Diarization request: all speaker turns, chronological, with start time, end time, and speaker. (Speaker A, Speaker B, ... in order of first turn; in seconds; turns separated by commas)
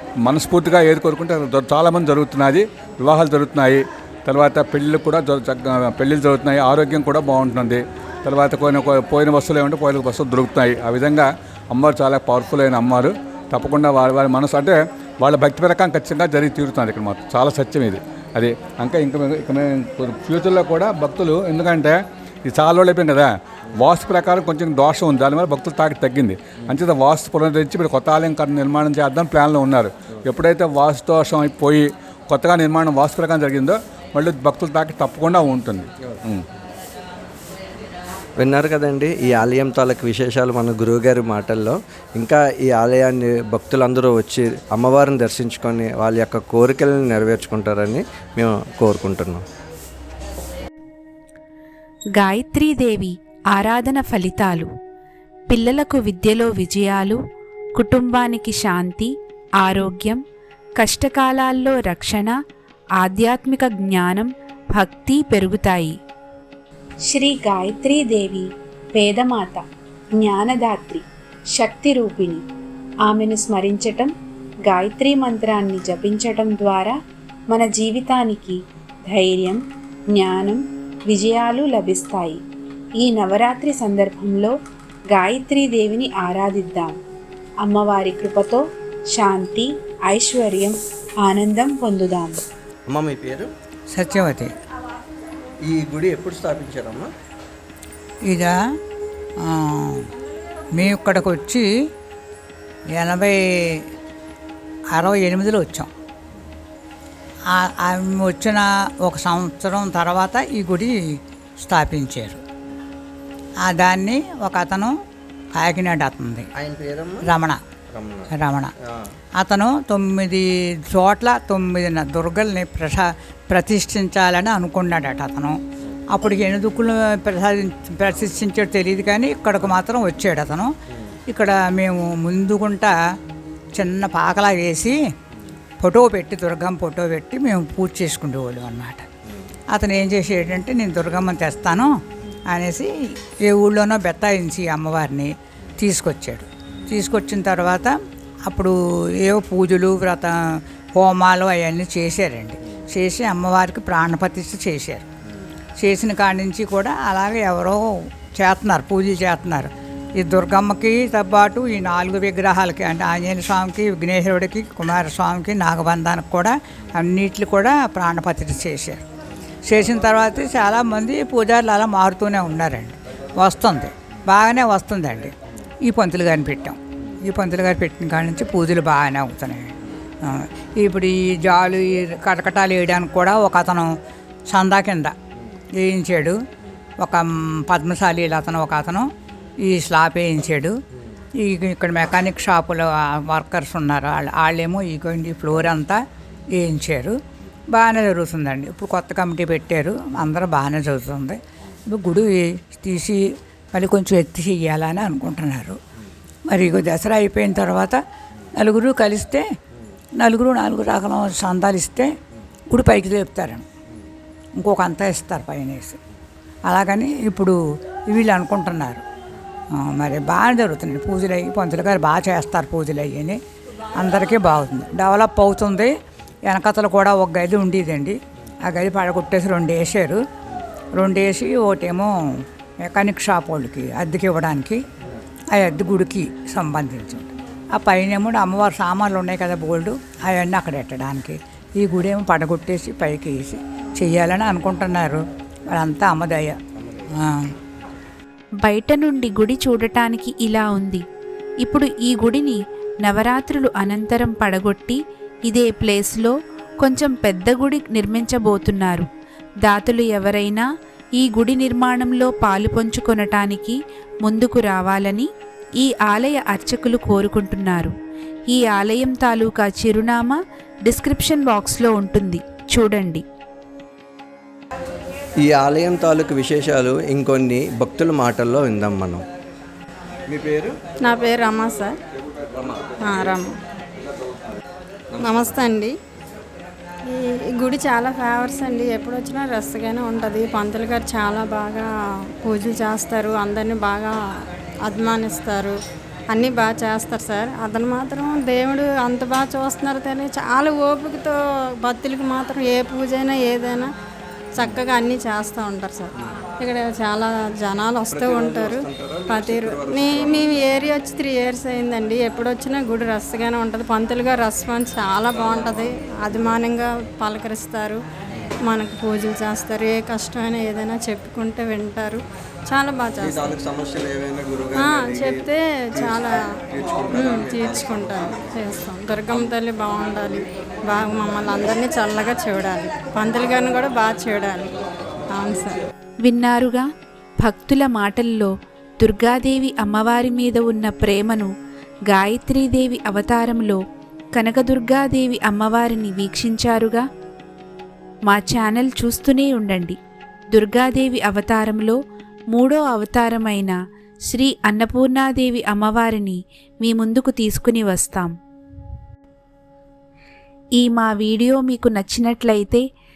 Speaker A: 0.2-36.4, Speaker B: 38.4-49.4, Speaker C: 52.2-54.7, Speaker C: 55.5-57.2, Speaker C: 57.8-60.2, Speaker C: 60.8-62.3, Speaker C: 63.0-66.0, Speaker C: 67.1-69.6, Speaker C: 70.1-71.0, Speaker C: 71.5-72.4, Speaker C: 73.1-74.1, Speaker C: 74.7-77.0, Speaker C: 77.5-82.4, Speaker C: 83.0-84.5, Speaker C: 85.1-87.0, Speaker C: 87.6-92.4, Speaker B: 92.9-93.5, Speaker D: 93.9-94.5, Speaker B: 95.6-97.1, Speaker D: 98.3-98.5, Speaker D: 99.5-100.1, Speaker D: 100.8-101.7, Speaker D: 102.9-103.8, Speaker D: 104.9-105.9, Speaker D: 107.5-112.4, Speaker D: 113.6-114.9, Speaker D: 115.5-116.5, Speaker B: 116.5-117.3, Speaker D: 117.2-117.6, Speaker B: 117.9-118.3, Speaker D: 118.3-118.7, Speaker D: 119.4-125.6, Speaker D: 126.1-130.7, Speaker D: 131.3-132.9, Speaker D: 133.8-135.0, Speaker D: 135.8-139.1, Speaker D: 139.7-141.9, Speaker D: 142.5-142.9, Speaker D: 143.4-147.9, Speaker D: 148.5-150.3, Speaker D: 150.9-155.1, Speaker D: 155.8-157.8, Speaker D: 158.3-169.0, Speaker D: 169.7-175.3, Speaker D: 175.8-183.9, Speaker D: 184.5-185.1, Speaker D: 185.8-186.4, Speaker D: 187.0-189.1, Speaker D: 189.7-190.8, Speaker D: 191.4-196.0, Speaker D: 196.6-197.2, Speaker D: 197.7-205.8, Speaker D: 206.5-208.0, Speaker D: 208.6-209.4, Speaker D: 210.2-212.1, Speaker D: 212.7-213.7, Speaker D: 214.6-216.0, Speaker D: 216.7-217.6, Speaker D: 218.1-219.0, Speaker D: 219.8-223.4, Speaker D: 224.0-225.9, Speaker D: 226.5-230.2, Speaker D: 231.0-232.1, Speaker D: 232.8-234.8, Speaker D: 235.5-245.2, Speaker D: 245.7-246.6, Speaker D: 247.2-247.5, Speaker C: 248.6-251.0, Speaker C: 251.6-259.1, Speaker C: 259.6-260.6, Speaker C: 261.2-265.3, Speaker C: 265.8-267.9, Speaker C: 268.5-273.2, Speaker B: 275.4-279.2, Speaker B: 280.3-280.8, Speaker E: 281.0-282.0, Speaker B: 282.6-282.9, Speaker E: 283.0-283.5, Speaker B: 285.2-285.5, Speaker E: 285.2-285.9, Speaker E: 287.1-291.9, Speaker E: 292.4-294.1, Speaker E: 294.9-295.8, Speaker E: 296.3-303.9, Speaker E: 304.6-318.0, Speaker B: 308.1-310.5, Speaker E: 318.6-323.5, Speaker B: 323.2-326.1, Speaker E: 324.7-326.4, Speaker B: 326.7-328.0, Speaker E: 327.1-334.7, Speaker E: 335.3-335.8, Speaker C: 336.2-336.9, Speaker C: 337.4-341.5, Speaker C: 342.1-343.8, Speaker C: 344.3-347.0, Speaker C: 348.3-350.0, Speaker C: 350.5-352.0, Speaker C: 352.5-353.8, Speaker C: 354.3-358.3, Speaker C: 360.8-362.8